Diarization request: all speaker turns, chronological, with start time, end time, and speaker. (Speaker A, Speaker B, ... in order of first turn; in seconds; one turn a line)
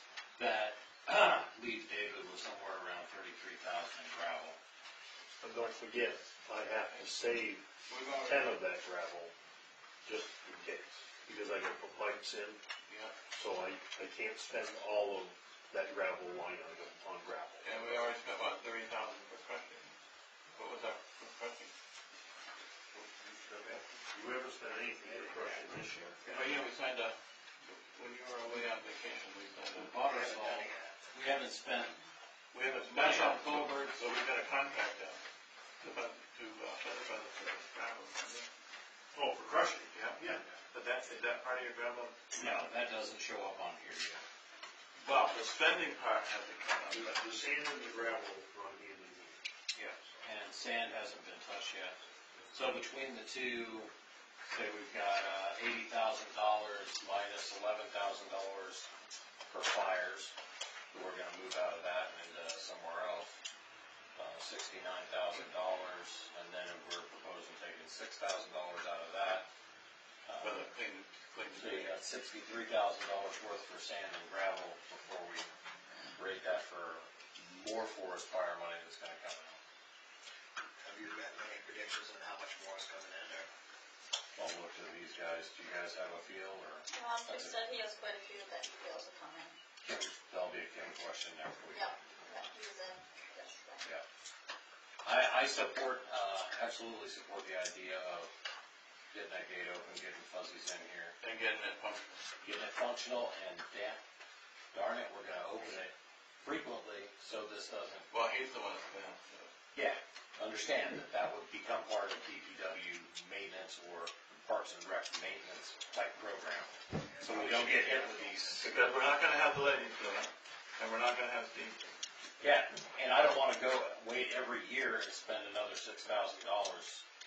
Speaker A: 0.4-4.6
Speaker B: 5.4-7.7
Speaker C: 7.9-8.5
Speaker B: 8.2-9.3
Speaker B: 10.0-12.6
Speaker C: 12.9-13.2
Speaker B: 13.3-18.1
Speaker C: 17.6-19.9
Speaker C: 20.5-21.7
Speaker B: 22.9-26.6
Speaker D: 25.0-25.3
Speaker C: 26.2-30.0
Speaker A: 29.8-32.0
Speaker D: 30.1-30.9
Speaker C: 32.5-35.2
Speaker A: 32.9-33.9
Speaker C: 35.8-38.5
Speaker B: 39.1-40.4
Speaker C: 39.9-42.2
Speaker A: 42.3-44.2
Speaker C: 45.0-47.2
Speaker B: 46.9-49.4
Speaker A: 49.7-52.0
Speaker A: 52.5-53.9
Speaker A: 54.5-58.9
Speaker A: 59.5-60.3
Speaker A: 60.9-63.4
Speaker A: 64.2-69.5
Speaker A: 70.3-70.7
Speaker C: 70.4-72.0
Speaker A: 71.5-75.5
Speaker A: 76.2-79.6
Speaker D: 80.8-83.5
Speaker A: 84.3-87.6
Speaker E: 86.9-89.5
Speaker A: 89.8-91.9
Speaker E: 91.7-93.9
Speaker A: 95.0-98.3
Speaker A: 99.1-101.2
Speaker C: 101.2-102.2
Speaker A: 102.4-104.0
Speaker A: 104.7-108.1
Speaker C: 108.1-109.5
Speaker A: 109.7-118.8
Speaker C: 117.3-118.0
Speaker C: 118.6-121.9
Speaker A: 122.4-127.0